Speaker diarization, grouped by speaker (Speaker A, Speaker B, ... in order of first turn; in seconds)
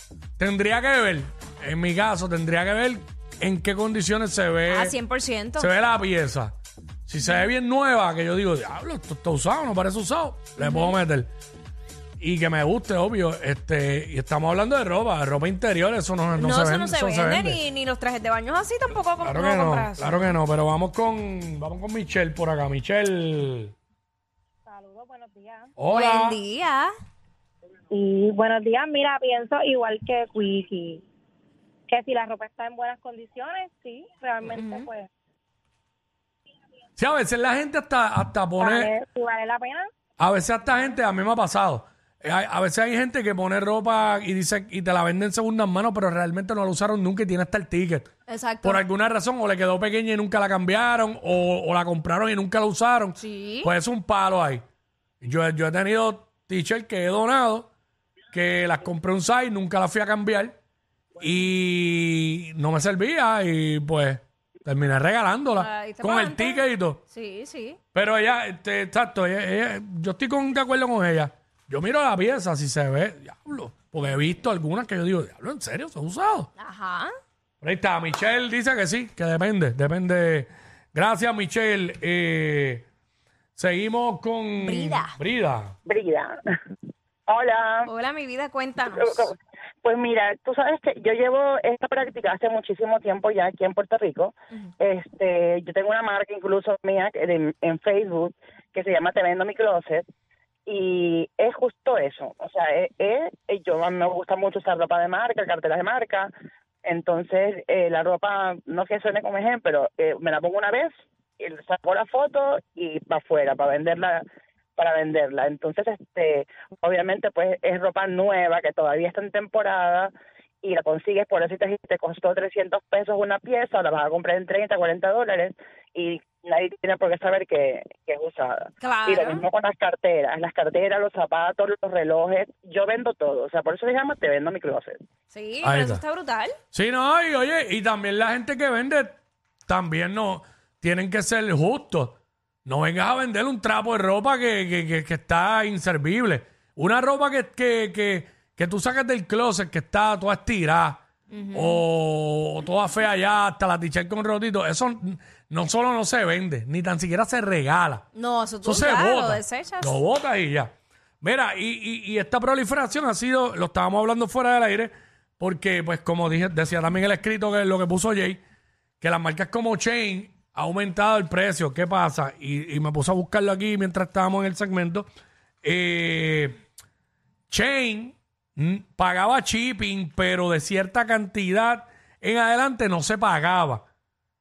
Speaker A: 0.4-5.0, 5.6-6.5, 7.1-11.3, 12.2-17.6, 19.2-23.7, 25.8-26.4, 37.0-38.9, 40.2-48.1, 48.6-54.6, 55.2-57.7, 58.3-60.6, 61.2-67.0, 67.9-76.5, 77.6-82.9, 83.6-85.8, 135.6-136.0, 136.7-158.0, 158.6-168.4, 169.0-175.1, 175.6-176.6, 177.5-183.8
Speaker B: 4.7-5.7, 10.6-11.0, 16.4-20.4, 25.9-26.9, 34.5-34.9, 48.3-48.9, 53.2-53.7, 65.6-67.8, 76.6-77.1, 84.6-85.2, 87.8-89.3, 128.8-129.4, 135.3-136.6, 151.3-151.8, 158.1-160.0
Speaker C: 24.7-25.7, 27.9-31.0, 31.9-35.1, 38.6-39.9
Speaker D: 85.9-86.4, 87.3-87.9, 88.9-100.0, 100.7-106.3, 106.8-114.2, 114.8-135.0